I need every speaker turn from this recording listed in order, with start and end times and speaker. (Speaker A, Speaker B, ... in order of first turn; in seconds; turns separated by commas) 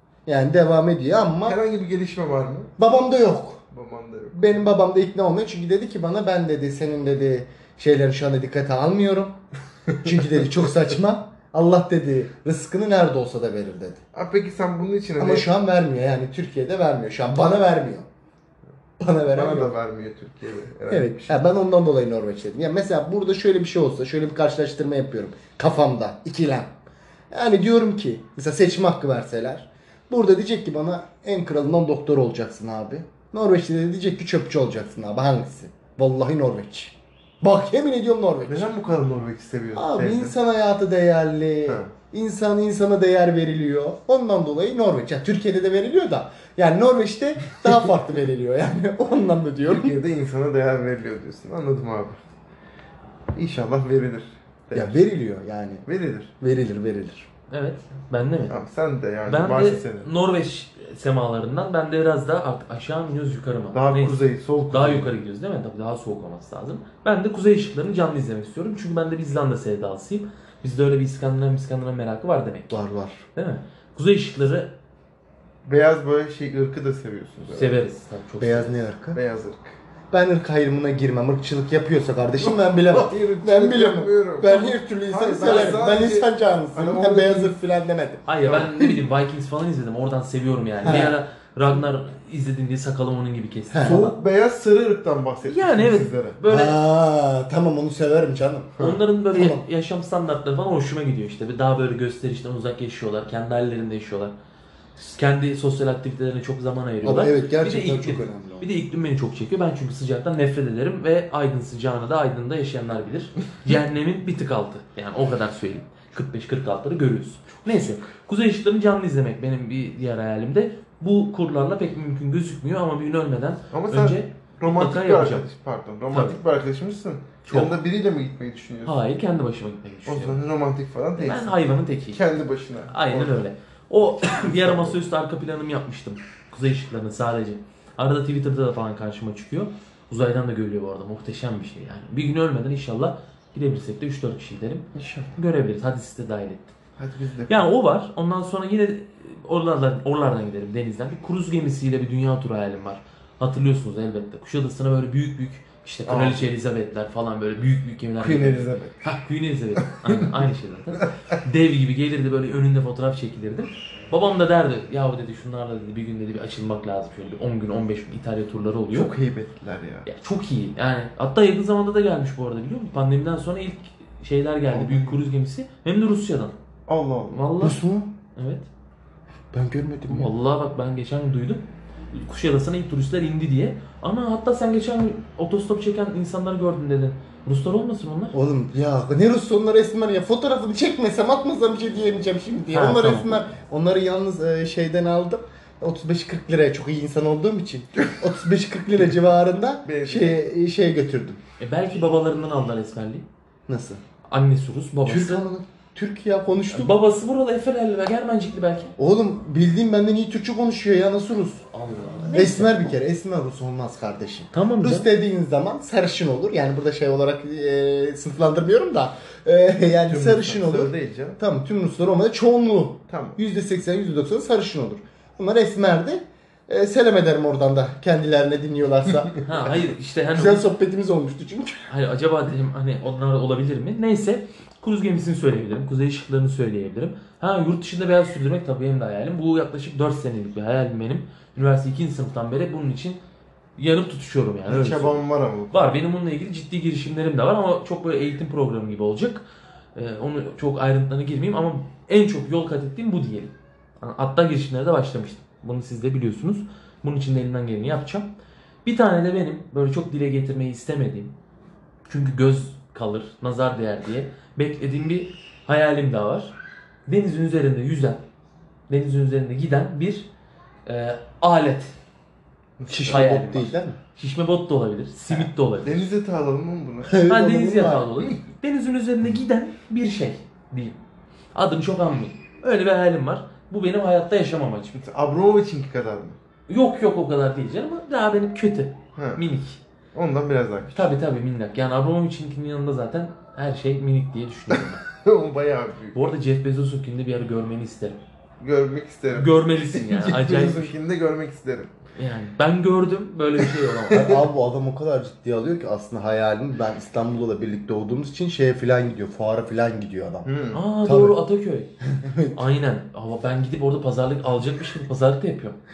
Speaker A: 0.2-1.6, Speaker B: 1.4-2.7, Speaker A: 2.8-3.6, Speaker B: 3.7-4.6, Speaker A: 4.3-9.4, Speaker A: 10.0-14.0, Speaker B: 14.1-15.5, Speaker A: 15.2-18.1, Speaker A: 19.0-19.7, Speaker B: 19.3-21.4, Speaker A: 20.9-26.7, Speaker A: 27.3-38.7, Speaker B: 38.5-40.3, Speaker A: 39.7-50.0, Speaker B: 49.6-52.2, Speaker B: 53.3-55.0, Speaker A: 54.7-55.9, Speaker B: 55.9-56.3, Speaker A: 56.4-57.3, Speaker C: 57.5-58.6, Speaker B: 58.5-60.1, Speaker C: 59.3-72.8, Speaker B: 63.7-65.1, Speaker A: 72.7-73.2, Speaker C: 73.3-74.7, Speaker B: 75.6-77.8, Speaker C: 77.5-78.8, Speaker A: 78.4-79.2, Speaker B: 79.1-79.7, Speaker A: 80.1-88.9, Speaker B: 82.5-87.5, Speaker C: 85.4-85.8, Speaker C: 88.2-94.2, Speaker A: 90.8-91.1, Speaker A: 93.7-94.0, Speaker B: 93.8-96.4, Speaker C: 95.4-96.8, Speaker A: 96.5-99.6, Speaker C: 98.8-104.3, Speaker C: 105.0-125.5, Speaker A: 107.0-108.7, Speaker B: 123.7-129.0, Speaker C: 126.1-126.4, Speaker C: 127.4-127.7, Speaker C: 128.8-130.4, Speaker B: 130.1-133.4, Speaker C: 131.2-132.2, Speaker C: 132.9-146.7, Speaker B: 134.2-134.9, Speaker B: 144.9-145.3, Speaker B: 147.0-147.6, Speaker C: 147.5-169.1, Speaker B: 156.1-156.5, Speaker B: 158.2-159.0, Speaker B: 168.9-170.1, Speaker C: 170.0-176.5, Speaker B: 174.7-175.2, Speaker B: 176.9-177.4, Speaker C: 177.3-177.8, Speaker A: 177.6-178.1, Speaker C: 178.3-178.7, Speaker A: 179.5-180.3, Speaker C: 180.1-188.4, Speaker A: 188.3-201.4, Speaker C: 192.7-193.4, Speaker B: 199.8-200.4, Speaker C: 201.6-203.2, Speaker A: 203.7-204.0, Speaker C: 204.3-205.4, Speaker A: 205.1-206.9, Speaker C: 206.7-208.9, Speaker A: 209.0-211.7, Speaker C: 211.7-212.9, Speaker A: 212.2-229.4, Speaker C: 214.5-215.1, Speaker B: 220.1-221.4, Speaker B: 223.1-223.4, Speaker C: 229.4-230.7, Speaker A: 230.3-231.9, Speaker C: 231.9-243.2, Speaker C: 243.8-249.4, Speaker B: 244.7-245.8, Speaker C: 249.9-258.3, Speaker C: 258.8-261.3, Speaker C: 262.1-266.5, Speaker C: 267.1-268.2, Speaker C: 268.9-270.3, Speaker C: 270.9-271.9, Speaker B: 272.8-273.3, Speaker A: 272.9-274.0, Speaker C: 273.0-276.1, Speaker B: 275.3-277.2, Speaker A: 277.1-278.2, Speaker C: 277.3-281.0, Speaker C: 281.5-285.0, Speaker B: 284.9-286.4, Speaker C: 286.7-289.8, Speaker B: 289.1-289.4, Speaker B: 290.1-291.1, Speaker C: 290.9-295.0, Speaker B: 295.1-296.2, Speaker C: 296.1-298.2, Speaker B: 298.6-301.9, Speaker C: 299.3-300.9, Speaker C: 302.1-304.4, Speaker A: 304.2-311.4, Speaker B: 310.4-310.8, Speaker C: 310.7-311.9, Speaker A: 312.1-312.6, Speaker C: 312.5-315.8